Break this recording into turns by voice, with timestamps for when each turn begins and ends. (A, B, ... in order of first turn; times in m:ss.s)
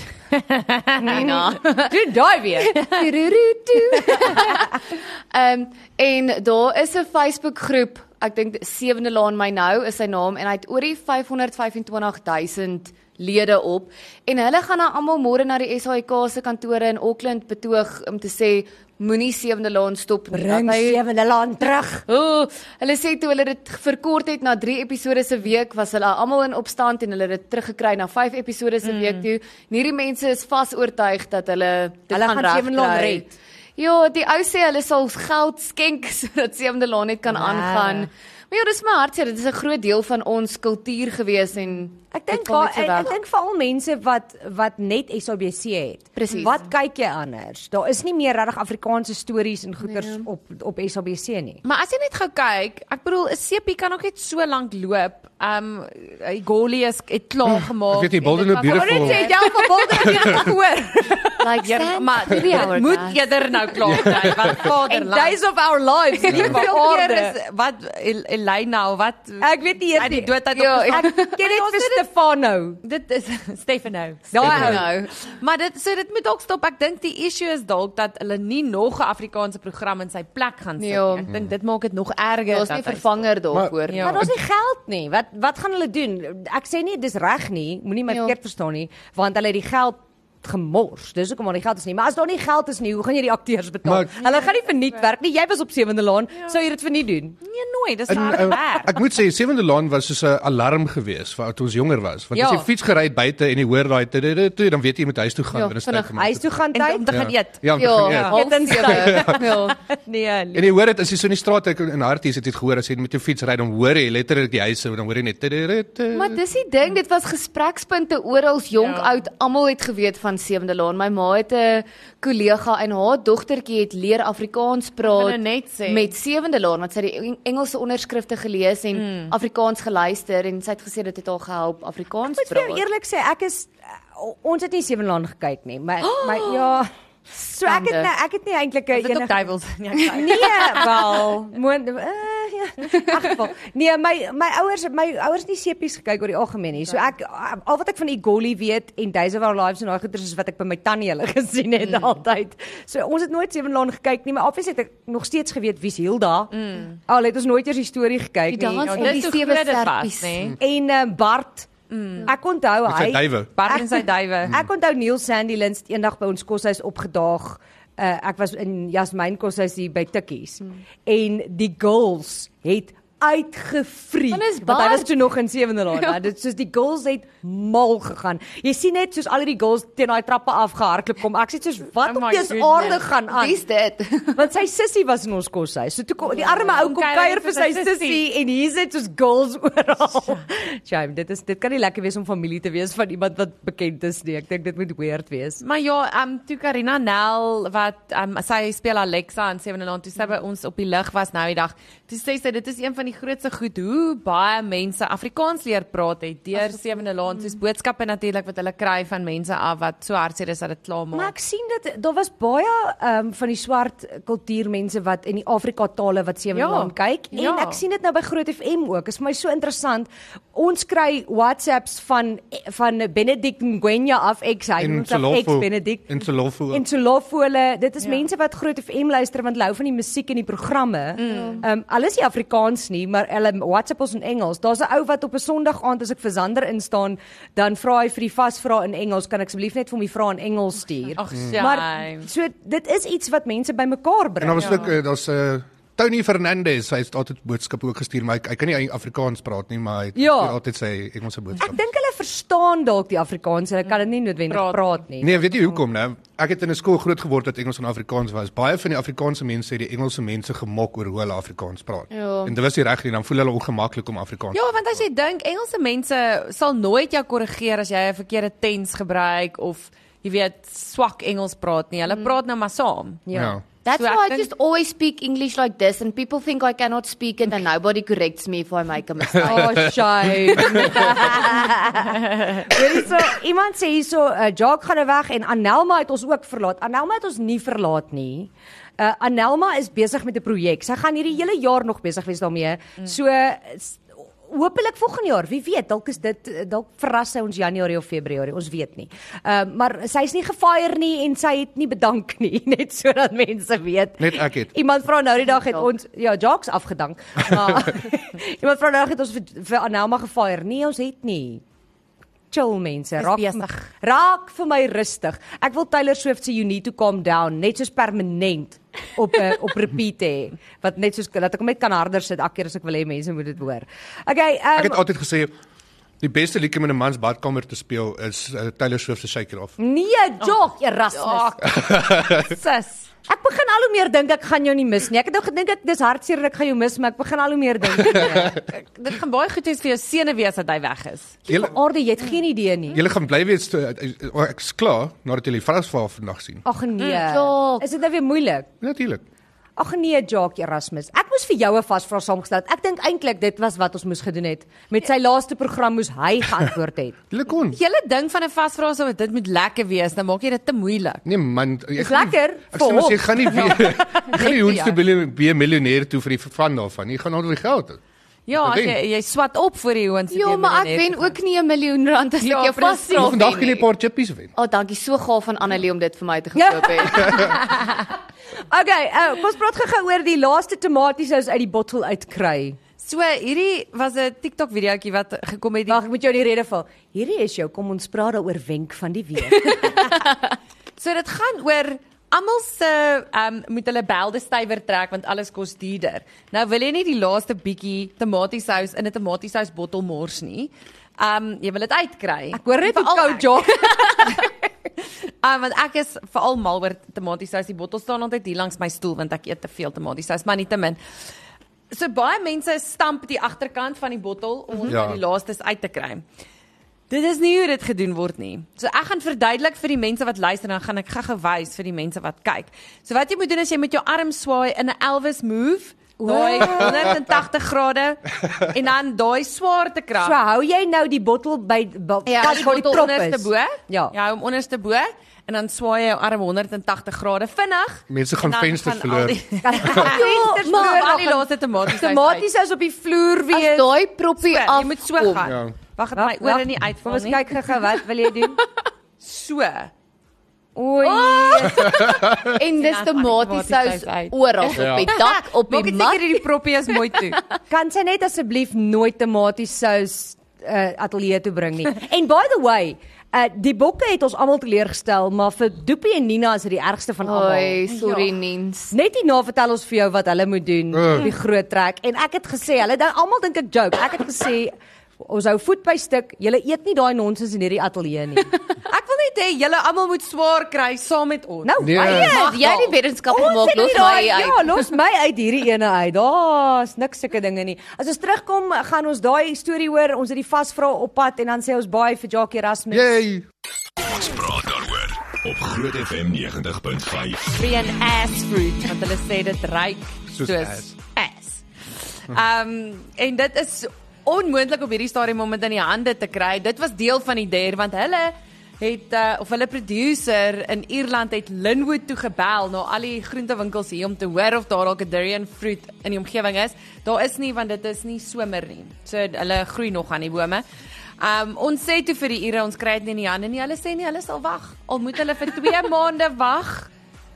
0:00.3-0:01.2 A
0:01.0-0:03.1 B
0:01.0-0:21.0 C
0:04.0-0:04.6 B
0:20.3-0:22.0 B
0:22.1-0:43.1 C
0:28.8-0:29.3 A
0:32.1-0:33.3 B
0:37.3-0:38.1 A
0:42.1-0:51.6 B
0:46.2-0:46.7 C
0:49.9-0:50.2 C
0:51.6-1:00.6 A
0:57.5-0:59.3 D
0:58.7-1:01.4 B
1:01.1-1:05.4 A
1:01.4-1:03.2 C
1:03.9-1:04.6 D
1:04.5-1:07.4 B
1:06.2-1:12.0 A
1:09.4-1:12.8 B
1:10.5-1:11.3 C
1:12.8-1:23.2 A
1:14.3-1:14.9 B
1:14.4-1:15.1 C
1:14.4-1:14.8 D
1:20.8-1:21.3 C
1:22.5-1:24.2 C
1:23.5-1:24.3 D
1:23.9-1:24.2 A
1:24.0-1:37.4 B
1:28.1-1:28.3 C
1:33.8-1:34.1 D
1:37.4-1:39.0 A
1:38.1-1:46.4 D
1:42.4-1:42.7 A
1:45.5-1:46.1 C
1:46.1-1:47.0 B
1:46.7-1:48.4 A
1:47.1-1:49.6 D
1:47.8-1:49.8 C
1:48.2-1:50.7 B
1:50.5-1:56.4 D
1:56.1-2:12.8 C
1:58.7-1:59.2 A
2:05.0-2:06.1 A
2:08.9-2:09.3 A
2:12.3-2:19.4 B
2:17.6-2:18.1 C
2:18.9-2:21.1 A
2:20.1-2:39.2 B
2:36.6-2:36.9 A
2:38.5-2:40.5 C
2:38.8-2:40.6 A
2:40.6-2:41.7 B
2:41.9-2:42.3 A
2:42.3-3:03.6 B
2:42.9-2:43.5 D
2:43.6-2:44.5 A
2:54.3-2:55.1 C
3:02.0-3:03.0 A
3:02.8-3:04.4 C
3:04.4-3:15.6 B
3:06.3-3:08.2 A
3:15.6-3:31.3 A
3:31.1-3:46.2 B
3:36.5-3:37.8 A
3:44.8-3:46.8 D
3:46.7-4:04.9 B
3:51.2-3:51.6 A
3:51.2-3:51.6 C
4:01.2-4:02.3 A
4:04.4-4:11.8 D
4:04.6-4:04.9 A
4:10.2-4:10.6 B
4:11.6-4:15.5 B
4:14.5-4:15.0 A
4:15.2-4:24.8 D
4:22.1-4:22.5 C
4:24.5-4:33.2 A
4:33.3-4:33.6 B
4:33.3-4:33.6 D
4:33.8-4:40.0 C
4:34.0-4:34.5 A
4:39.3-4:39.9 D
4:39.4-5:11.6 B
4:40.4-4:41.0 D
4:40.7-4:41.0 C
5:04.2-5:04.7 D
5:05.6-5:05.9 C
5:12.5-5:25.0 B
5:13.2-5:13.8 A
5:24.8-5:25.5 D
5:26.2-5:29.8 D
5:29.8-5:31.6 B
5:31.1-5:33.1 A
5:31.8-5:32.4 D
5:33.3-5:38.6 B
5:38.1-5:41.4 A
5:41.5-5:43.0 B
5:41.5-5:41.7 D
5:42.9-5:46.6 D
5:46.6-5:48.7 B
5:47.1-5:47.9 C
5:48.8-5:49.2 D
5:49.8-5:57.2 B
5:57.3-5:57.8 D
5:57.7-6:01.2 A
6:01.2-6:08.0 D
6:02.0-6:04.0 B
6:03.6-6:05.0 A
6:08.5-6:11.4 A
6:08.6-6:09.0 D
6:10.3-6:13.9 C
6:12.4-6:13.6 A
6:13.2-6:14.5 D
6:14.6-6:17.6 C
6:16.6-6:18.0 B
6:18.7-6:22.8 B
6:23.0-6:26.0 A
6:25.9-6:30.1 B
6:31.0-6:44.5 A
6:42.5-6:44.5 B
6:45.4-6:51.0 A
6:51.9-6:56.2 A
6:54.9-6:55.2 D
6:57.1-7:10.4 A
7:06.2-7:07.2 B
7:10.2-7:14.1 B
7:12.3-7:22.5 A
7:18.1-7:19.4 D
7:19.6-7:23.9 B
7:23.5-7:25.5 C
7:24.4-7:27.6 A
7:25.4-7:25.7 D
7:26.2-7:28.6 B
7:29.2-7:29.9 A
7:30.8-7:32.0 B
7:31.0-7:37.4 A
7:31.8-7:32.5 D
7:32.6-7:36.4 C
7:34.8-7:35.1 D
7:37.7-7:47.8 B
7:47.2-7:48.9 C
7:47.9-7:48.3 A
7:48.9-7:58.5 B
7:50.9-7:51.3 D
7:58.9-8:03.0 A
8:01.6-8:02.8 B
8:01.8-8:02.4 D
8:02.0-8:04.9 C
8:03.3-8:13.2 B
8:12.9-8:13.5 D
8:14.0-8:17.6 E
8:17.5-8:21.6 A
8:20.3-8:20.9 D
8:22.2-8:40.6 A
8:41.2-8:46.9 A